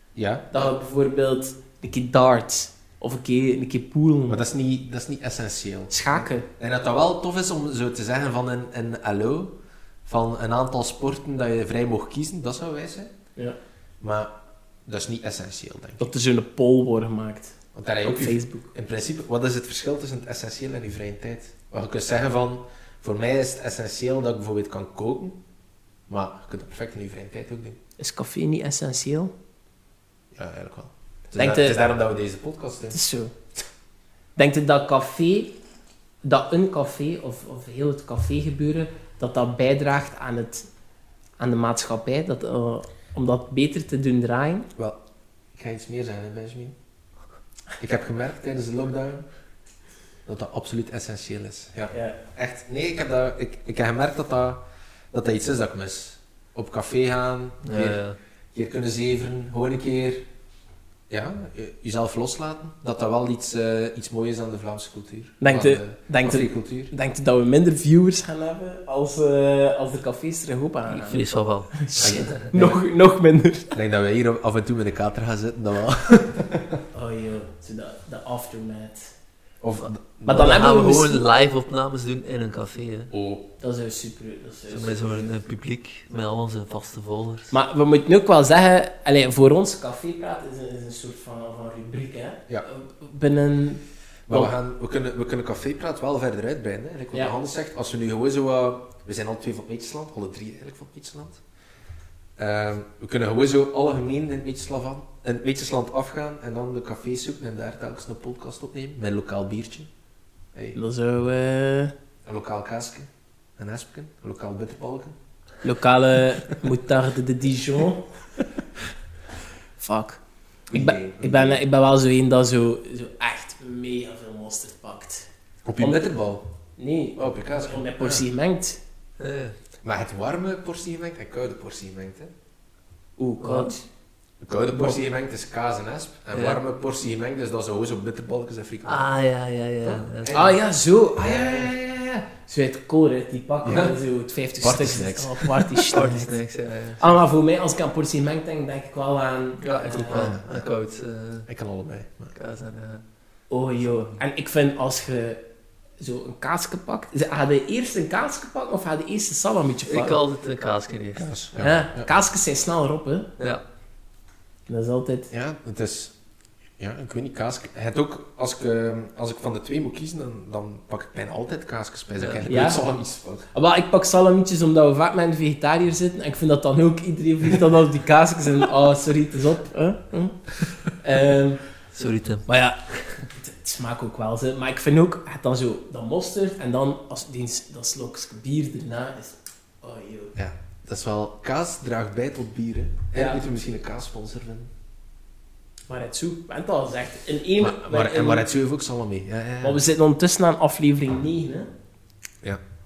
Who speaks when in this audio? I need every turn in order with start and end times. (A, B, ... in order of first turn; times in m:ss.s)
0:00.1-0:00.7 A
0:00.5-0:04.4 B
0:04.3-0:13.1 A
0:05.9-0:06.5 B
0:14.0-0:14.3 A
0:14.8-0:16.1 A
0:16.0-0:18.7 B
0:17.7-0:25.4 A
0:26.1-0:27.8 A
0:28.0-0:29.3 B
0:30.3-0:33.0 A
0:31.4-0:31.8 B
0:32.9-0:33.3 B
0:34.4-0:35.6 B
0:36.2-0:40.7 B
0:41.4-0:44.7 B
0:44.7-0:45.0 A
0:45.5-0:46.8 A
0:47.8-0:49.2 A
0:50.2-0:58.0 A
0:51.9-0:52.2 B
0:57.6-0:58.2 C
0:58.5-1:00.2 A
1:01.1-1:06.9 A
1:05.4-1:11.2 B
1:10.9-1:12.4 C
1:11.8-1:13.7 B
1:12.0-1:12.8 A
1:13.7-1:16.8 A
1:16.9-1:19.1 B
1:19.6-1:20.6 A
1:20.2-1:21.2 B
1:20.3-1:23.1 C
1:23.1-1:23.5 A
1:23.6-1:25.3 B
1:24.7-1:27.5 C
1:27.5-1:34.5 B
1:34.3-1:41.4 A
1:42.4-1:49.9 A
1:50.7-1:51.9 B
1:52.2-1:55.2 A
1:55.6-1:58.1 B
1:59.8-2:00.2 B
2:00.7-2:01.6 A
2:00.7-2:05.3 B
2:05.6-2:06.5 A
2:05.8-2:06.0 B
2:06.8-2:08.8 B
2:07.2-2:08.2 A
2:09.2-2:09.6 C
2:09.8-2:12.3 A
2:13.2-2:13.8 B
2:13.4-2:13.7 C
2:14.4-2:19.1 A
2:16.3-2:16.6 C
2:18.8-2:20.4 C
2:19.8-2:20.6 A
2:20.3-2:26.4 B
2:21.2-2:22.2 A
2:23.6-2:23.9 A
2:24.6-2:25.8 A
2:25.9-2:27.0 C
2:27.0-2:30.3 B
2:29.6-2:31.5 C
2:30.0-2:30.6 A
2:31.5-2:32.3 A
2:32.3-2:33.0 C
2:33.5-2:35.4 B
2:36.0-2:40.2 B
2:39.9-2:41.4 C
2:41.2-2:42.1 A
2:41.6-2:43.3 B
2:44.7-2:45.3 B
2:45.3-2:46.1 A
2:46.8-2:53.5 A
2:52.2-2:52.5 C
2:52.5-2:52.8 B
2:53.5-3:01.6 B
3:01.9-3:03.2 C
3:02.5-3:02.8 B
3:03.3-3:10.4 B
3:10.3-3:14.7 A
3:13.1-3:13.4 B
3:15.9-3:18.4 B
3:17.6-3:19.8 A
3:19.6-3:21.7 B